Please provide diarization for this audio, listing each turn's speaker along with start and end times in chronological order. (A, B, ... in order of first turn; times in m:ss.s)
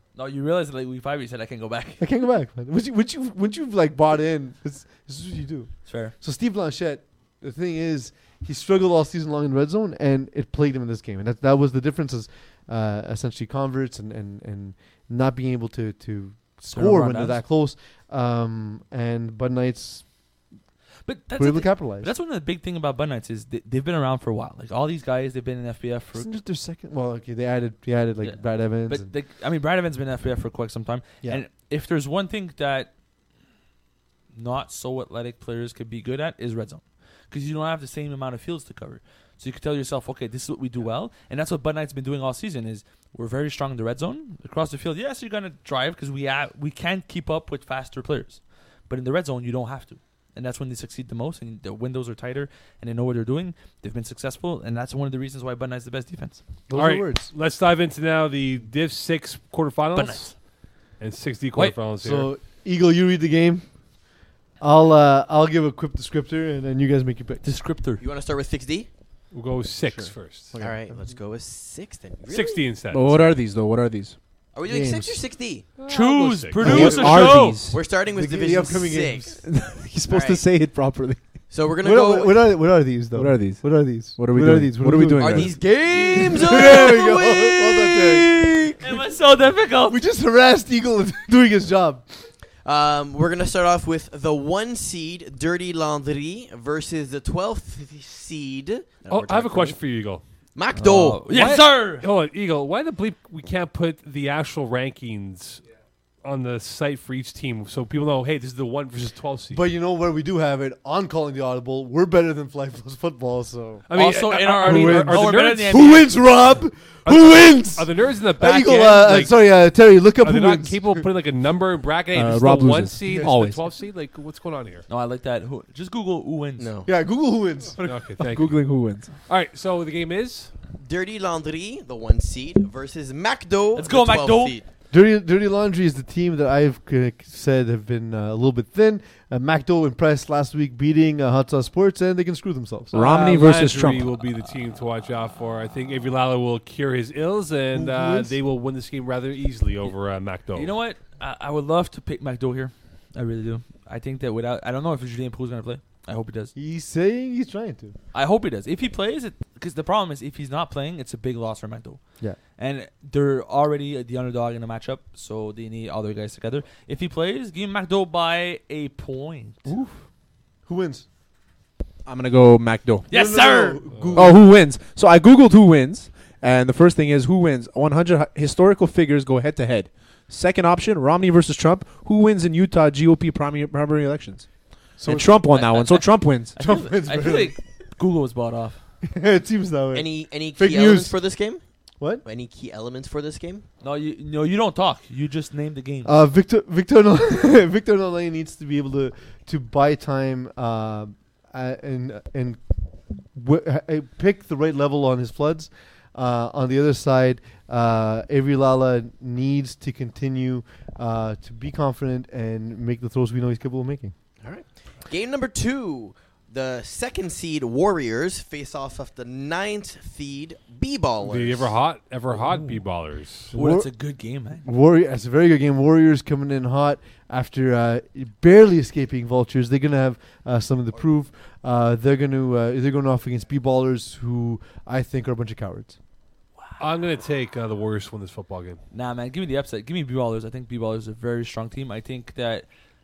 0:00.2-0:02.1 A
0:02.0-0:20.1 B
0:05.9-0:06.1 A
0:16.7-0:17.4 A
0:21.0-0:26.3 A
0:21.4-0:22.1 B
0:26.2-0:29.1 B
0:28.2-0:32.9 A
0:34.3-0:56.4 A
0:56.7-0:57.3 B
0:56.7-1:00.4 C
1:00.0-1:00.4 A
1:01.0-1:02.3 C
1:02.0-1:03.8 B
1:04.6-1:07.5 B
1:07.4-1:08.0 A
1:08.0-1:08.9 D
1:09.3-1:10.6 C
1:09.8-1:11.1 B
1:10.6-1:12.7 D
1:12.3-1:13.3 C
1:12.9-1:14.2 E
1:14.5-1:15.7 D
1:14.7-1:15.2 B
1:15.8-1:17.6 C
1:15.9-1:17.6 A
1:16.6-1:17.3 B
1:16.6-1:17.8 E
1:17.7-1:19.4 D
1:17.9-1:19.3 B
1:19.4-1:21.4 E
1:20.1-1:20.4 D
1:21.5-1:22.4 D
1:21.8-1:28.9 B
1:23.2-1:26.2 E
1:25.2-1:28.7 D
1:26.0-1:27.3 A
1:28.6-1:30.0 A
1:29.9-1:32.1 B
1:32.6-1:39.8 D
1:39.1-1:40.2 C
1:40.6-1:41.2 D
1:40.8-1:42.1 A
1:41.3-1:45.6 C
1:46.2-1:49.6 C
1:49.5-1:53.8 B
1:53.9-1:56.0 C
1:53.9-1:56.1 A
1:54.6-2:01.1 B
1:57.1-1:59.4 C
2:00.2-2:04.8 C
2:02.1-2:03.6 E
2:03.1-2:03.3 B
2:04.9-2:06.7 A
2:06.6-2:06.9 D
2:06.9-2:07.9 B
2:07.8-2:08.6 C
2:08.2-2:09.1 E
2:09.3-2:10.5 C
2:10.8-2:14.6 D
2:13.8-2:14.6 A
2:14.9-2:23.0 B
2:22.9-2:24.1 E
2:22.9-2:30.8 C
2:27.7-2:28.4 B
2:30.5-2:36.5 A
2:36.6-2:38.0 B
2:38.1-2:49.7 A
2:49.7-2:50.0 B
2:50.7-2:51.1 B
2:52.0-2:53.1 E
2:53.1-2:53.9 A
2:53.1-2:54.5 B
2:54.1-3:04.5 E
3:05.0-3:05.4 B
3:05.0-3:06.6 E
3:05.5-3:08.8 A
3:06.6-3:07.6 B
3:09.0-3:11.2 B
3:09.9-3:11.6 D
3:12.2-3:13.7 D
3:13.8-3:16.1 A
3:16.0-3:22.6 B
3:23.3-3:34.2 B
3:34.4-3:41.7 D
3:41.2-3:43.5 C
3:43.5-3:43.9 B
3:43.5-3:44.7 A
3:44.6-3:56.0 B
3:56.8-3:58.8 C
3:58.9-4:02.7 A